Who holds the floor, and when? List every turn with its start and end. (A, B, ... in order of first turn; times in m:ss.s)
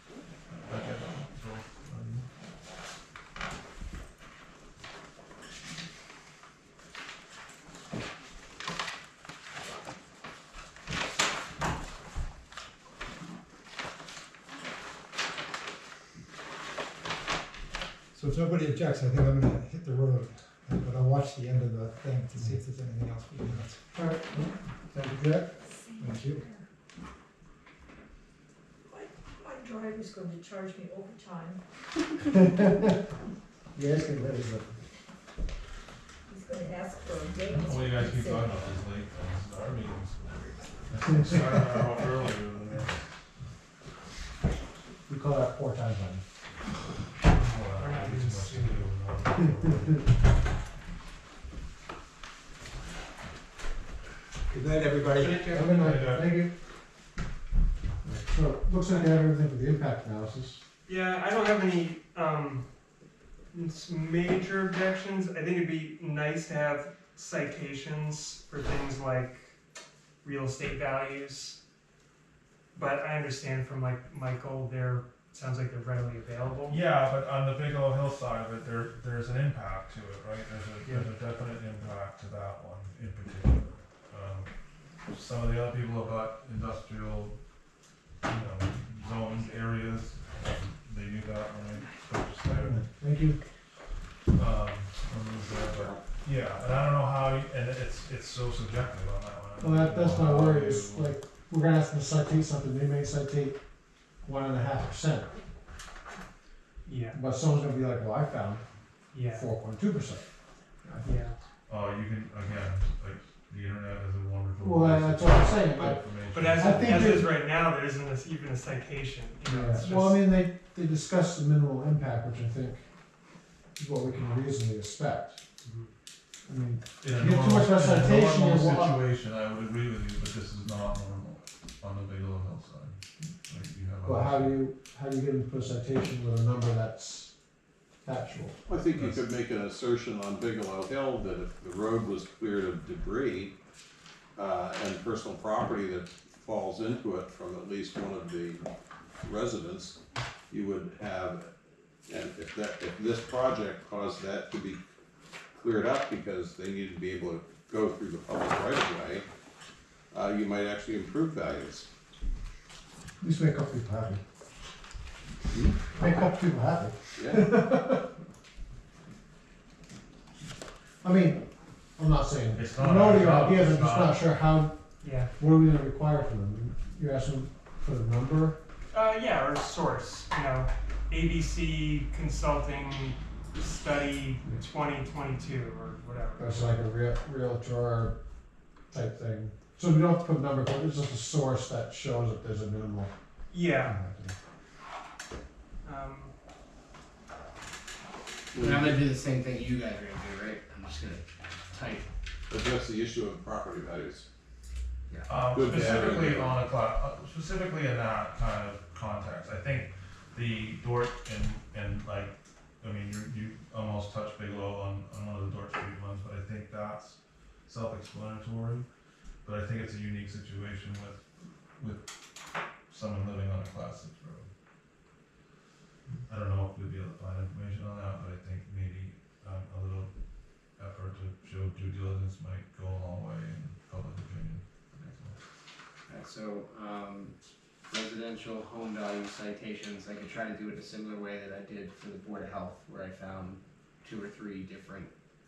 0:00.5-0:02.3 A
0:18.1-0:26.4 B
0:23.5-0:24.4 C
0:25.1-0:25.4 C
0:25.6-0:26.7 D
0:28.9-0:31.6 D
0:33.8-0:34.7 C
0:36.3-0:38.9 D
0:37.5-0:43.0 A
0:45.1-0:46.2 C
0:47.3-0:50.0 A
0:47.7-0:48.9 E
0:54.5-0:55.4 B
0:55.2-0:55.6 E
0:55.3-0:56.5 C
0:55.6-0:56.4 A
0:58.0-1:00.6 C
1:00.9-1:02.7 E
1:03.5-1:09.5 E
1:10.2-1:11.6 E
1:12.7-1:16.8 E
1:16.7-1:24.5 A
1:25.1-1:27.4 A
1:28.2-1:32.8 A
1:29.3-1:29.5 E
1:32.4-1:33.4 C
1:34.3-1:41.1 A
1:35.6-1:36.0 F
1:39.6-1:43.6 C
1:44.2-1:45.3 C
1:46.8-1:47.2 E
1:47.1-1:48.6 C
1:49.1-1:49.5 E
1:49.2-1:50.2 C
1:50.8-1:51.2 C
1:51.0-1:51.4 E
1:51.7-1:57.2 A
1:54.6-1:56.0 C
1:56.3-2:00.3 E
1:56.6-1:57.3 C
1:59.5-2:02.8 C
2:03.8-2:05.4 C
2:05.6-2:05.9 E
2:06.5-2:09.0 C
2:07.0-2:14.6 A
2:14.0-2:17.3 C
2:18.0-2:18.6 C
2:18.7-2:23.6 F
2:24.4-2:28.6 F
2:29.2-2:30.0 F
2:30.5-2:31.5 F
2:32.1-2:34.8 F
2:35.5-2:39.2 F
2:40.1-2:41.9 F
2:43.2-2:44.2 C
2:45.5-2:45.8 F
2:45.9-2:48.1 C
2:47.2-2:47.5 F
2:51.0-2:51.4 C
2:52.0-2:58.6 C
2:52.6-2:54.2 A
2:55.0-2:55.3 E
2:58.9-3:06.8 E
3:06.4-3:08.2 C
3:08.9-3:13.1 C
3:13.5-3:14.0 E
3:13.8-3:14.4 C
3:15.8-3:16.3 E
3:18.5-3:22.1 G
3:18.6-3:19.0 F
3:22.5-3:24.2 F
3:25.3-3:38.9 A
3:25.4-3:26.6 F
3:39.4-3:41.2 A
3:41.8-3:42.1 A
3:42.9-3:44.5 A
3:46.3-3:50.1 A
3:50.8-3:55.4 A
3:56.1-3:57.4 G
3:57.9-4:05.1 G